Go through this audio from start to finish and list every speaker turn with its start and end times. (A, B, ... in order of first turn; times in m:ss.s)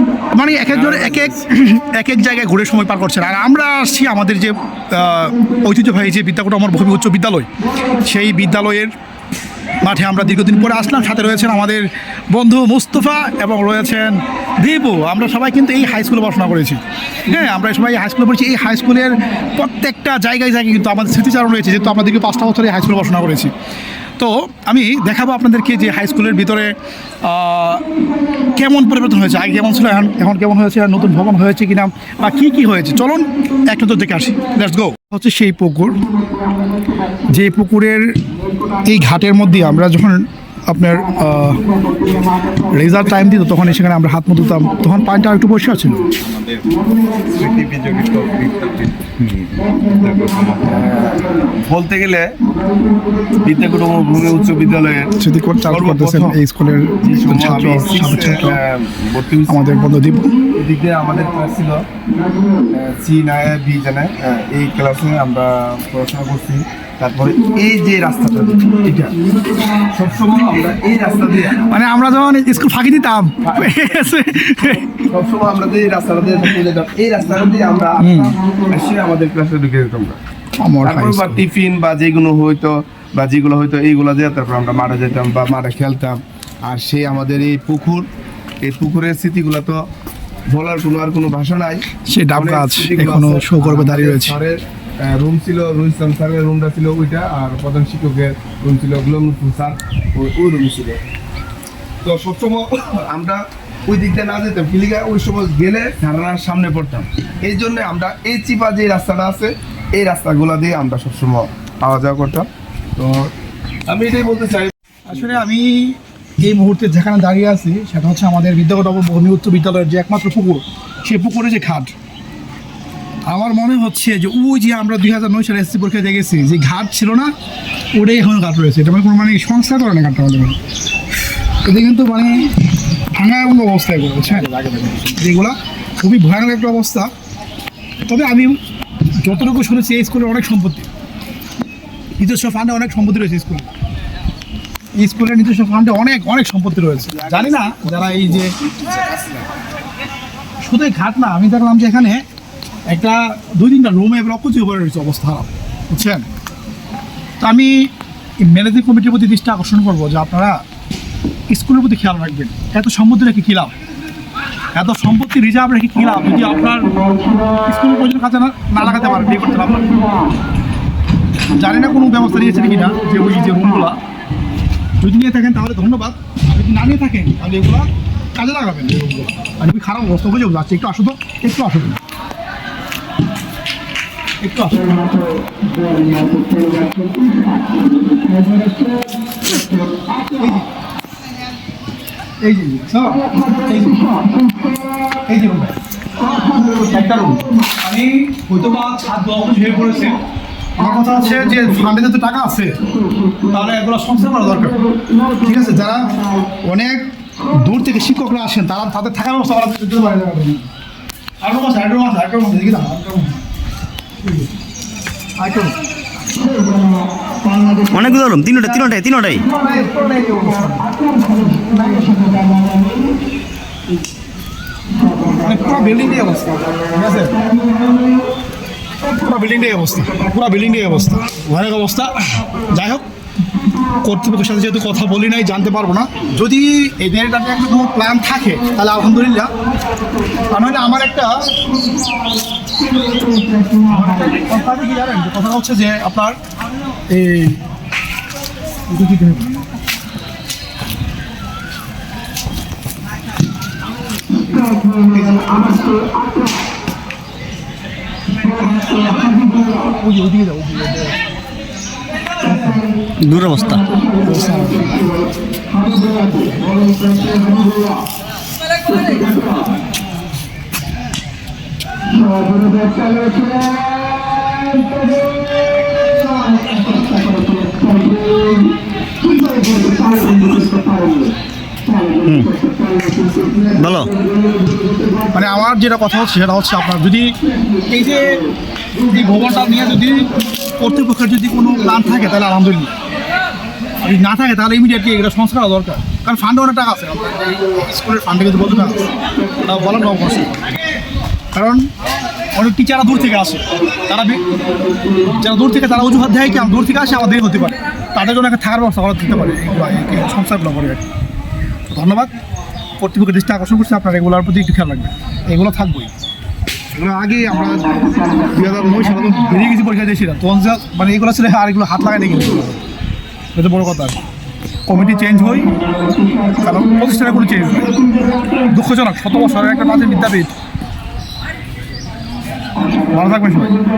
0:00.3-0:08.9 A
0:00.7-0:01.4 B
0:09.8-0:23.5 A
0:24.2-0:27.9 A
0:28.5-0:36.0 A
0:37.2-0:38.0 A
0:38.8-0:41.7 A
0:42.5-0:46.1 A
0:46.3-0:52.3 B
0:53.4-0:55.2 B
0:55.2-0:58.6 A
0:55.7-0:56.4 B
0:57.0-0:59.7 B
0:59.5-1:00.3 A
1:00.6-1:01.8 B
1:02.7-1:09.2 B
1:09.7-1:11.6 B
1:11.6-1:15.1 A
1:13.4-1:13.8 B
1:15.1-1:20.2 B
1:18.0-1:18.4 A
1:20.6-1:21.4 A
1:20.8-1:28.1 B
1:28.6-1:29.8 B
1:30.5-1:41.0 B
1:32.1-1:34.4 A
1:42.0-1:53.3 B
1:53.9-1:54.7 B
1:55.1-2:01.9 A
2:03.3-2:07.3 A
2:07.9-2:10.6 A
2:11.6-2:12.5 A
2:13.2-2:17.1 A
2:18.0-2:18.6 A
2:19.2-2:20.9 A
2:22.2-2:23.7 A
2:25.0-2:28.5 A
2:27.3-2:28.3 B
2:28.9-2:29.4 B
2:30.6-2:32.2 A
2:32.9-2:36.3 A
2:37.4-2:37.7 A
2:38.4-2:40.6 A
2:41.5-2:43.7 A
2:44.8-2:46.9 A
2:47.6-2:50.0 A
2:51.5-2:54.0 A
2:55.0-3:02.0 A
3:04.4-3:04.9 A
3:10.3-3:10.7 A
3:12.4-3:14.0 A
3:15.3-3:15.8 A
3:16.6-3:20.2 A
3:20.8-3:22.8 A
3:23.5-3:24.8 A
3:25.3-3:30.7 A
3:31.4-3:33.4 A
3:34.2-3:34.5 A
3:35.4-3:35.8 A
3:37.9-3:39.4 C
3:39.4-3:42.3 A
3:45.3-3:47.4 A
3:49.1-3:53.0 A
3:53.9-3:59.5 A
4:00.4-4:01.3 A
4:03.8-4:06.4 A
4:07.1-4:07.6 A
4:08.9-4:09.6 A
4:15.0-4:15.7 A
4:19.8-4:21.2 A
4:22.5-4:22.8 A
4:23.2-4:23.9 C
4:24.2-4:25.1 A
4:42.3-4:42.5 C
4:43.7-4:44.1 C
4:45.3-4:47.3 A
4:47.9-4:48.4 A
4:49.0-4:50.3 A
4:50.8-4:52.9 A
4:54.0-4:59.0 A
4:59.6-5:00.6 A
5:01.5-5:01.8 A
5:02.6-5:04.4 A
5:05.3-5:11.0 A
5:11.9-5:12.3 A
5:13.0-5:16.1 A
5:16.9-5:22.8 A
5:23.6-5:24.2 A
5:24.9-5:25.7 A
5:26.6-5:28.0 A
5:28.6-5:30.5 A
5:33.1-5:33.8 A